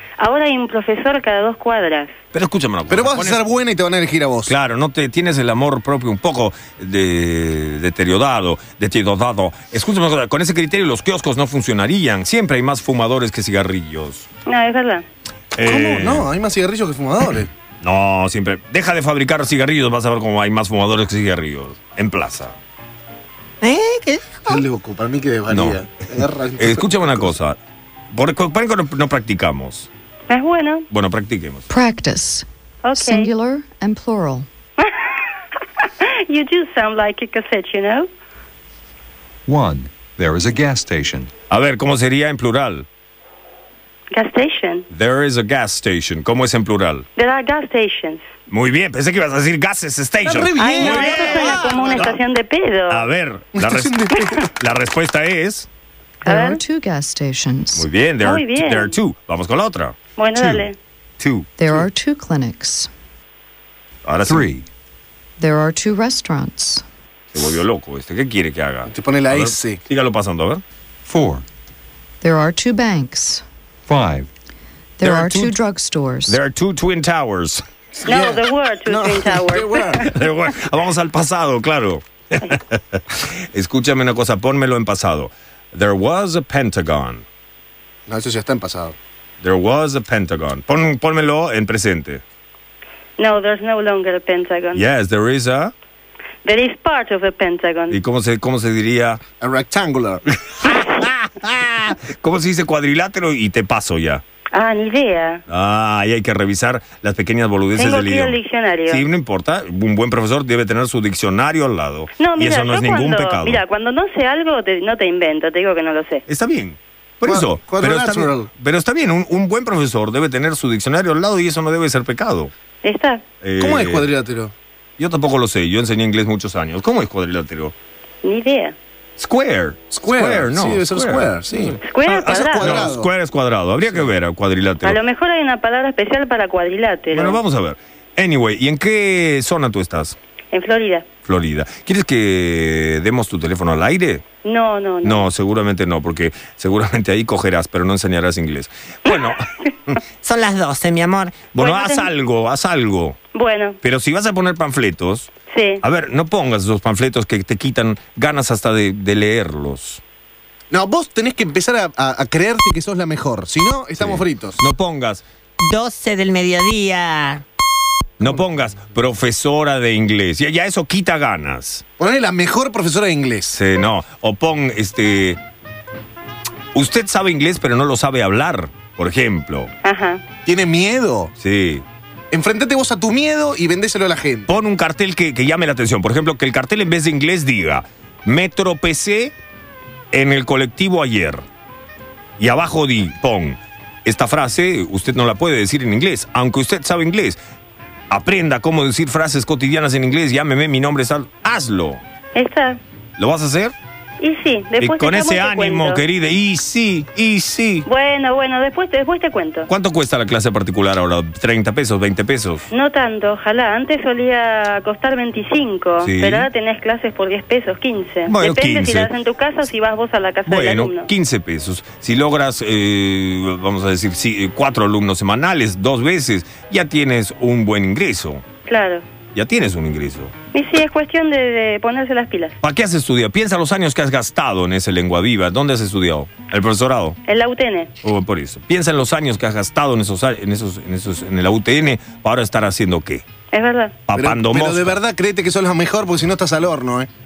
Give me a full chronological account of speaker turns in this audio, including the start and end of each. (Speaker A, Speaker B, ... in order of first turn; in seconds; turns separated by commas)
Speaker A: 0.2-2.1, Speaker B: 2.3-3.4, Speaker C: 2.9-4.5, Speaker B: 4.5-14.3, Speaker A: 14.4-15.0, Speaker B: 15.5-16.3, Speaker C: 15.6-17.5, Speaker B: 17.8-22.6, Speaker D: 23.6-24.4, Speaker C: 24.4-27.3, Speaker B: 25.5-25.8, Speaker B: 26.6-27.6, Speaker B: 28.1-29.9, Speaker A: 30.3-30.9, Speaker B: 30.9-31.6, Speaker E: 31.7-34.5, Speaker A: 32.8-33.3, Speaker A: 34.8-35.1, Speaker A: 35.8-38.1, Speaker F: 39.5-41.3, Speaker B: 41.5-42.8, Speaker A: 44.1-44.8, Speaker B: 44.9-47.0, Speaker A: 47.2-48.2, Speaker B: 48.5-52.2, Speaker C: 50.2-52.0, Speaker A: 50.6-53.0, Speaker B: 52.9-55.7, Speaker C: 53.5-54.4, Speaker A: 56.2-56.6, Speaker E: 56.2-57.9, Speaker B: 57.7-60.7, Speaker A: 58.2-58.9, Speaker A: 60.2-60.8, Speaker B: 61.2-61.5, Speaker E: 61.6-62.9, Speaker B: 64.0-64.5, Speaker F: 64.2-64.7, Speaker E: 65.4-66.8, Speaker B: 67.3-70.6, Speaker C: 68.9-69.8, Speaker F: 71.0-71.5, Speaker E: 72.2-73.4, Speaker F: 73.8-74.3, Speaker E: 75.0-76.4, Speaker B: 75.0-75.5, Speaker B: 76.2-77.6, Speaker C: 78.0-80.1, Speaker A: 78.0-80.0, Speaker B: 80.0-87.2, Speaker C: 88.1-89.0, Speaker B: 89.4-92.2, Speaker A: 93.2-94.8, Speaker B: 94.7-95.7, Speaker A: 96.4-98.0, Speaker B: 97.9-99.2, Speaker C: 99.4-100.2, Speaker B: 100.6-104.2, Speaker A: 104.5-105.4, Speaker B: 105.5-113.6, Speaker A: 107.7-109.0, Speaker A: 112.2-116.2, Speaker B: 116.3-122.5, Speaker C: 117.2-118.5, Speaker A: 122.8-123.2, Speaker B: 123.4-124.1, Speaker C: 123.6-124.5, Speaker B: 125.0-127.7, Speaker A: 128.2-128.7, Speaker B: 129.2-135.0, Speaker C: 129.9-133.1, Speaker A: 131.8-132.9, Speaker A: 134.8-137.4, Speaker B: 137.1-140.2, Speaker A: 140.5-141.1, Speaker B: 141.2-144.2, Speaker A: 144.4-145.2, Speaker B: 145.0-150.0, Speaker D: 150.2-151.4, Speaker B: 151.4-153.2, Speaker A: 151.6-152.1, Speaker A: 153.3-153.8, Speaker B: 153.8-155.3, Speaker A: 155.5-155.8, Speaker B: 155.8-160.0, Speaker C: 160.7-164.6, Speaker B: 164.0-165.2, Speaker D: 165.6-167.4, Speaker B: 168.2-171.8, Speaker C: 172.0-173.6, Speaker B: 173.5-175.4, Speaker B: 176.7-179.7, Speaker A: 179.8-180.2, Speaker C: 180.4-181.3, Speaker B: 181.4-181.8, Speaker C: 182.3-184.5, Speaker B: 184.5-189.3, Speaker B: 190.1-191.4, Speaker B: 192.4-197.4, Speaker B: 198.1-202.0, Speaker A: 202.3-202.8, Speaker B: 203.2-203.7, Speaker A: 204.2-206.0, Speaker B: 204.8-207.8, Speaker A: 207.9-209.7, Speaker B: 209.7-212.7, Speaker A: 212.7-221.1, Speaker B: 216.0-216.5, Speaker B: 218.2-219.1, Speaker B: 220.4-228.4, Speaker A: 228.7-229.0, Speaker B: 229.3-230.3, Speaker A: 230.5-232.6, Speaker B: 232.6-237.2, Speaker A: 237.3-237.9, Speaker B: 238.0-243.2, Speaker A: 243.5-243.9, Speaker B: 244.1-245.0, Speaker C: 244.2-247.1